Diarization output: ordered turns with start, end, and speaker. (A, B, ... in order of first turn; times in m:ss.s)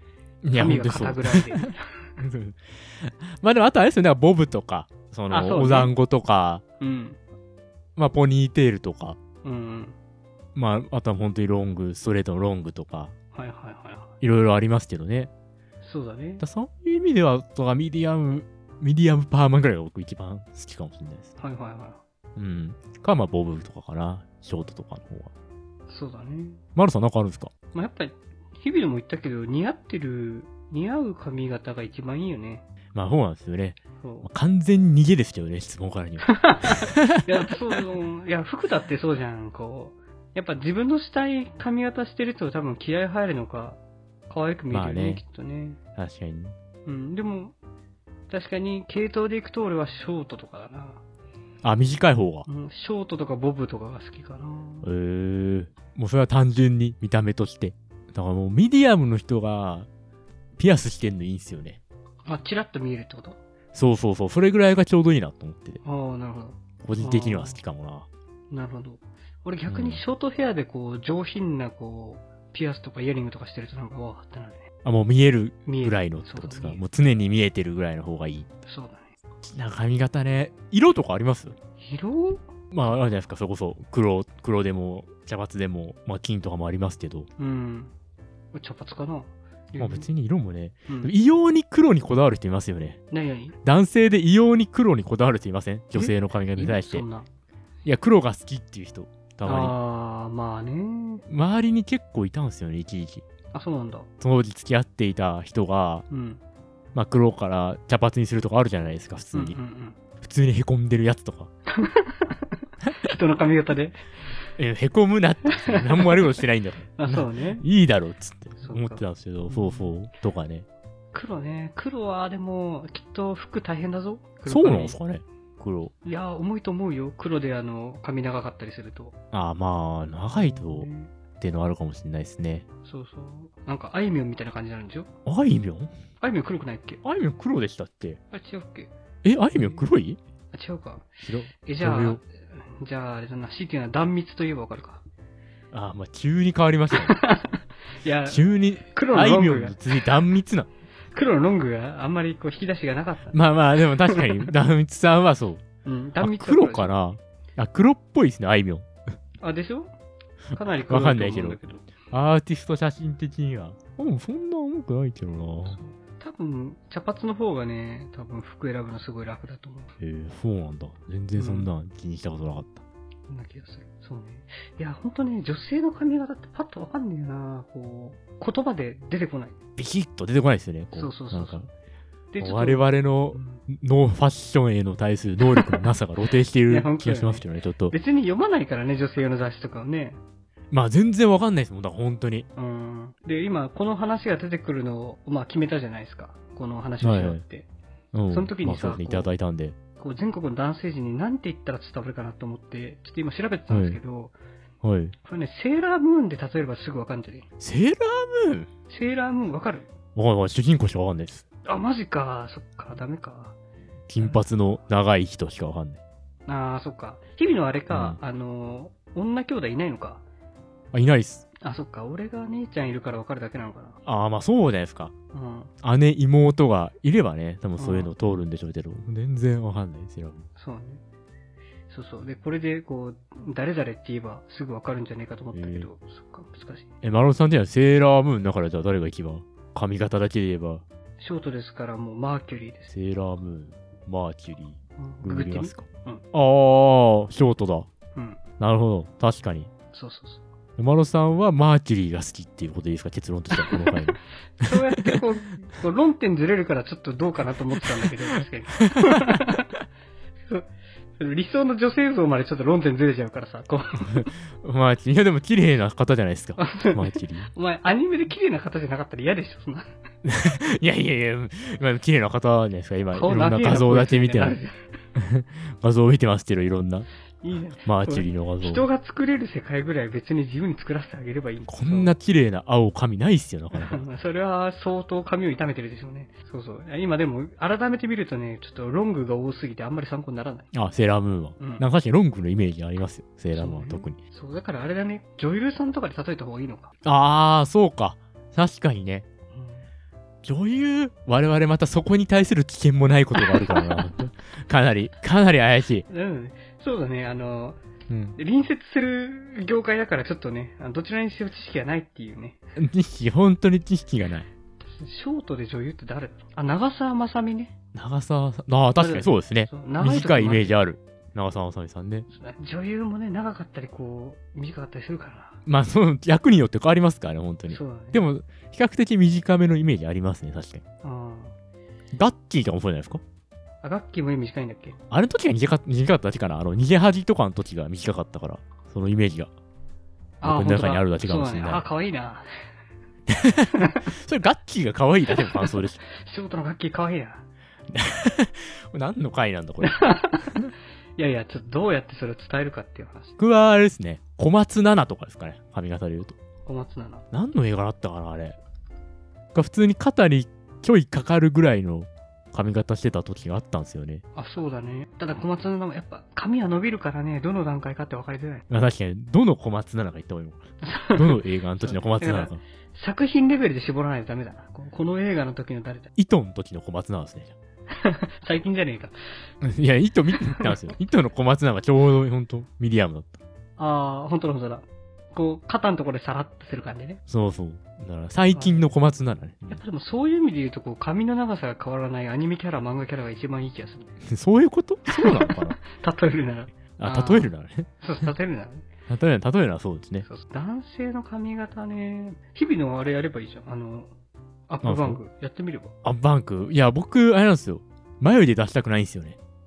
0:00.4-0:06.6 A
0:00.6-0:02.1 B
0:05.3-0:05.9 B
0:06.8-0:07.2 B
0:08.0-0:09.2 A
0:09.4-0:10.0 B
0:10.6-0:13.1 A
0:13.3-0:14.1 B
0:14.2-0:15.3 A
0:15.8-0:16.4 B
0:16.4-0:21.3 A
0:21.4-0:22.0 B
0:22.4-0:25.3 A
0:25.9-0:26.6 B
0:26.8-0:27.5 A
0:27.7-0:32.6 B
0:33.0-0:37.2 A
0:34.0-0:34.3 B
0:36.2-0:45.8 B
0:44.7-0:45.2 A
0:46.0-0:46.5 A
0:46.9-0:47.6 B
0:48.3-0:51.0 B
0:51.6-0:52.5 A
0:52.5-0:54.9 B
0:54.8-0:59.9 A
1:00.6-1:01.8 A
1:02.3-1:03.4 B
1:03.7-1:05.8 A
1:05.8-1:07.6 B
1:06.8-1:08.1 A
1:08.5-1:14.7 B
1:09.7-1:10.0 A
1:14.8-1:18.5 A
1:15.7-1:16.8 B
1:18.7-1:19.1 B
1:19.4-1:21.6 A
1:21.8-1:22.5 B
1:22.7-1:27.3 A
1:27.4-1:27.9 B
1:28.5-1:30.1 B
1:29.8-1:33.0 A
1:30.9-1:31.1 B
1:33.1-1:33.6 B
1:33.6-1:37.0 A
1:35.9-1:37.3 B
1:37.8-1:39.8 A
1:39.4-1:41.2 B
1:41.3-1:43.2 A
1:43.5-1:44.1 B
1:44.2-1:46.1 A
1:46.1-1:46.4 B
1:47.0-1:49.6 A
1:49.3-1:50.0 B
1:50.2-1:51.5 A
1:51.7-1:54.0 B
1:54.6-2:00.7 A
1:55.7-1:56.3 B
1:57.0-1:57.6 B
1:58.6-1:59.9 B
2:01.1-2:05.0 B
2:04.5-2:05.9 A
2:06.0-2:09.1 B
2:09.3-2:10.9 A
2:10.3-2:11.1 B
2:11.4-2:12.6 A
2:12.8-2:15.1 B
2:15.3-2:15.9 A
2:16.2-2:17.0 B
2:17.0-2:18.2 A
2:18.3-2:18.9 B
2:19.2-2:20.2 A
2:19.5-2:19.8 B
2:20.5-2:21.1 B
2:21.2-2:22.2 A
2:21.6-2:25.0 B
2:25.7-2:27.2 A
2:26.9-2:30.0 B
2:28.3-2:30.7 A
2:31.1-2:33.4 B
2:33.3-2:35.6 A
2:34.1-2:34.5 B
2:35.8-2:36.9 B
2:36.2-2:38.9 A
2:39.4-2:39.9 B
2:40.5-2:45.8 A
2:40.6-2:41.9 B
2:45.6-2:49.9 B
2:50.0-2:52.8 A
2:51.4-2:51.7 B
2:53.3-2:59.6 B
2:59.8-3:01.7 A
3:00.9-3:01.6 B
3:02.3-3:03.6 B
3:02.4-3:08.0 A
3:06.7-3:10.2 B
3:10.7-3:12.5 A
3:12.6-3:17.7 B
3:17.0-3:17.4 A
3:18.1-3:19.8 A
3:18.3-3:19.3 B
3:20.0-3:24.3 B
3:23.7-3:24.0 A
3:24.8-3:25.2 A
3:25.3-3:27.5 B
3:27.6-3:28.7 A
3:28.9-3:29.9 B
3:30.2-3:31.4 A
3:31.6-3:33.6 B
3:34.1-3:36.0 A
3:34.2-3:34.4 B
3:36.5-3:40.2 B
3:37.9-3:38.2 A
3:40.9-3:41.4 A
3:41.6-3:44.0 B
3:44.1-3:45.1 A
3:45.3-3:45.7 B
3:45.8-3:50.4 A
3:47.8-3:48.1 B
3:50.6-3:51.0 B
3:51.9-3:56.9 B
3:55.5-3:55.9 A
3:57.0-4:00.8 A
4:01.2-4:02.9 B
4:02.9-4:07.9 A
4:05.0-4:06.2 B
4:08.2-4:08.4 B
4:08.6-4:09.7 A
4:09.9-4:10.4 B
4:10.8-4:14.2 A
4:14.6-4:19.7 B
4:21.2-4:24.3 B
4:24.1-4:27.5 A
4:26.6-4:29.9 B
4:30.2-4:34.6 A
4:33.1-4:34.8 B
4:35.2-4:37.1 A
4:37.4-4:42.1 B
4:37.8-4:38.8 A
4:41.7-4:44.0 A
4:43.7-4:50.7 B
4:50.7-4:54.2 A
4:51.6-4:51.8 B
4:53.6-4:56.9 B
4:57.0-4:59.3 A
4:59.5-4:59.9 B
5:00.4-5:06.1 A
5:03.4-5:04.0 B
5:06.1-5:07.8 B
5:08.1-5:08.4 A
5:08.4-5:12.6 B
5:12.8-5:14.5 A
5:14.8-5:17.7 B
5:18.0-5:22.3 A
5:19.0-5:20.7 B
5:22.3-5:25.6 B
5:25.7-5:30.8 A
5:27.7-5:28.2 B
5:31.0-5:31.6 B
5:32.1-5:33.2 A
5:33.8-5:35.0 B
5:35.1-5:39.5 A
5:40.4-5:41.8 A
5:40.4-5:42.5 B
5:43.3-5:46.0 A
5:46.1-5:47.4 B
5:47.9-5:50.7 A
5:49.8-5:50.6 B
5:51.2-5:53.4 B
5:53.4-5:56.4 A
5:56.7-5:57.3 B
5:57.3-5:58.6 A
5:59.5-6:04.2 A
6:04.4-6:08.6 B
6:08.7-6:12.6 A
6:10.9-6:16.1 B
6:16.2-6:17.6 A
6:17.9-6:19.2 B
6:19.6-6:23.3 A
6:20.4-6:20.7 B
6:23.8-6:27.2 B
6:27.3-6:29.8 A
6:28.5-6:28.9 B
6:29.7-6:34.2 B
6:34.3-6:35.8 A
6:35.1-6:38.9 B
6:37.0-6:37.9 A
6:39.1-6:40.3 A
6:40.2-6:44.1 B
6:44.7-6:45.9 B
6:44.8-6:45.2 A
6:46.0-6:49.4 A